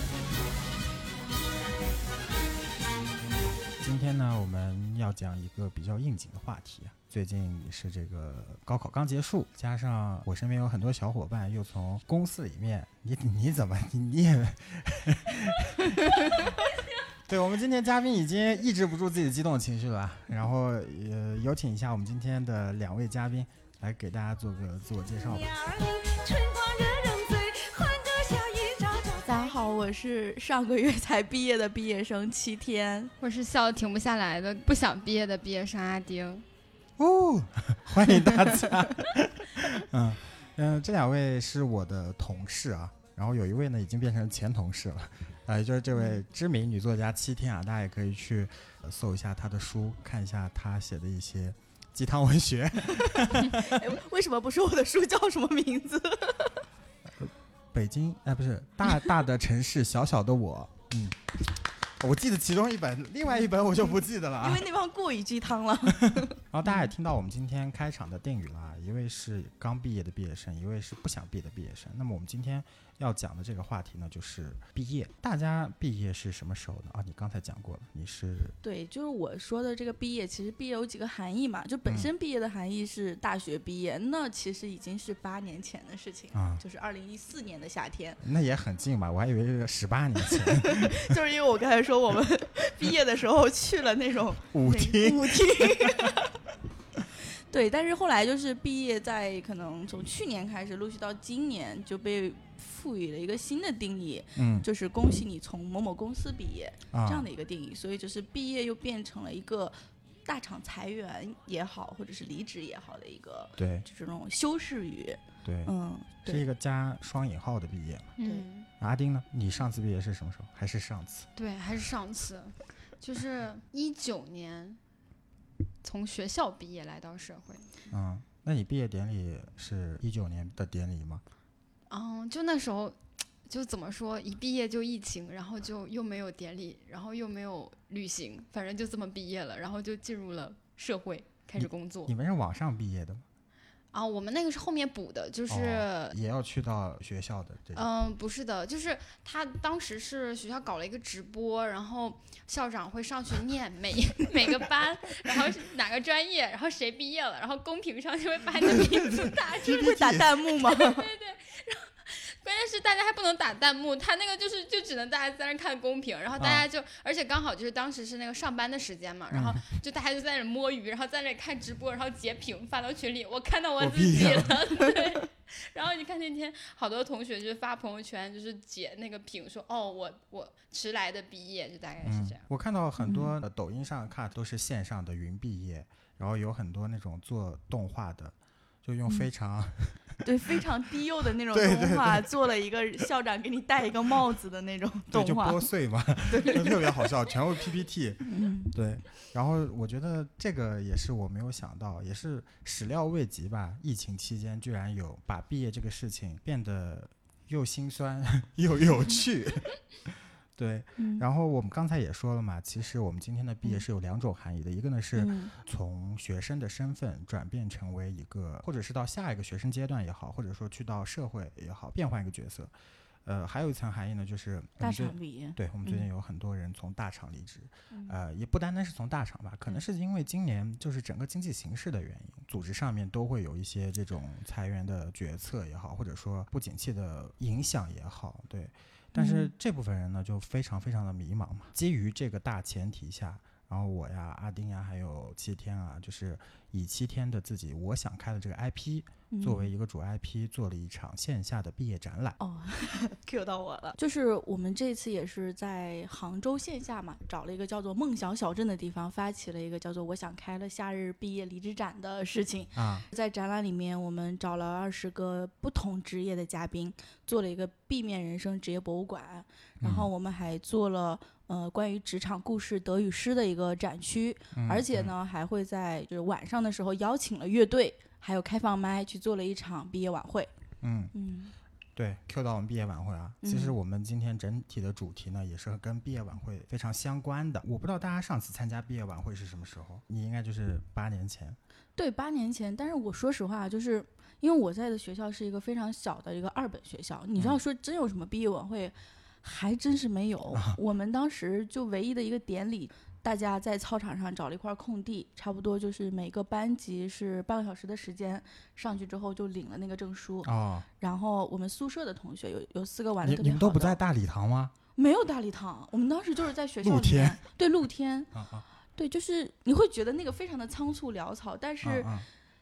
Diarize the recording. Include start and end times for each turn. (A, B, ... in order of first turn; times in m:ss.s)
0:03.8-0:16.6 A
0:16.0-0:16.3 B
0:17.2-0:25.6 A
0:25.6-0:29.2 C
0:29.0-0:33.1 B
0:33.2-0:36.4 D
0:37.0-0:53.8 A
0:38.2-0:38.8 B
0:45.9-0:46.2 B
0:52.9-0:56.6 B
0:57.2-1:01.2 A
1:02.0-1:04.6 A
1:03.4-1:06.9 B
1:05.9-1:18.6 A
1:18.6-1:28.2 B
1:26.3-1:26.6 A
1:28.2-1:31.1 A
1:30.2-1:36.3 B
1:34.5-1:36.2 A
1:37.4-1:56.4 B
1:44.4-1:44.6 A
1:46.9-1:47.3 A
1:53.6-1:53.8 A
1:55.4-1:55.7 A
1:56.2-1:58.1 A
1:58.2-1:58.7 D
1:58.2-1:58.5 B
1:58.8-2:01.3 A
2:01.4-2:04.8 D
2:05.8-2:07.8 D
2:07.9-2:11.2 A
2:11.9-2:22.1 D
2:21.6-2:23.2 A
2:23.9-2:26.2 D
2:25.5-2:27.9 A
2:27.7-2:39.8 D
2:38.6-2:40.4 A
2:39.6-2:41.1 B
2:40.5-3:02.4 D
2:46.4-2:46.6 A
2:49.3-2:49.7 A
2:53.8-2:54.6 A
3:02.0-3:10.2 A
3:03.0-3:03.3 B
3:10.2-3:15.7 B
3:11.5-3:12.3 A
3:15.1-3:42.7 A
3:16.3-3:17.0 B
3:18.2-3:18.7 B
3:31.0-3:31.2 B
3:35.2-3:35.5 B
3:43.2-4:12.4 A
3:44.8-3:46.1 B
3:47.9-3:48.2 B
3:59.1-3:59.5 B
4:09.3-4:09.7 B
4:12.4-4:40.5 B
4:22.8-4:23.0 A
4:29.8-4:30.1 A
4:34.5-4:35.1 A
4:40.8-4:41.1 A
4:41.1-4:41.5 B
4:42.0-4:51.6 A
4:43.4-4:43.8 B
4:52.0-5:14.0 B
5:10.4-5:10.9 A
5:13.2-5:14.7 A
5:15.0-5:18.3 B
5:16.8-5:17.4 A
5:18.3-5:18.6 A
5:19.0-5:22.1 B
5:21.8-5:22.3 A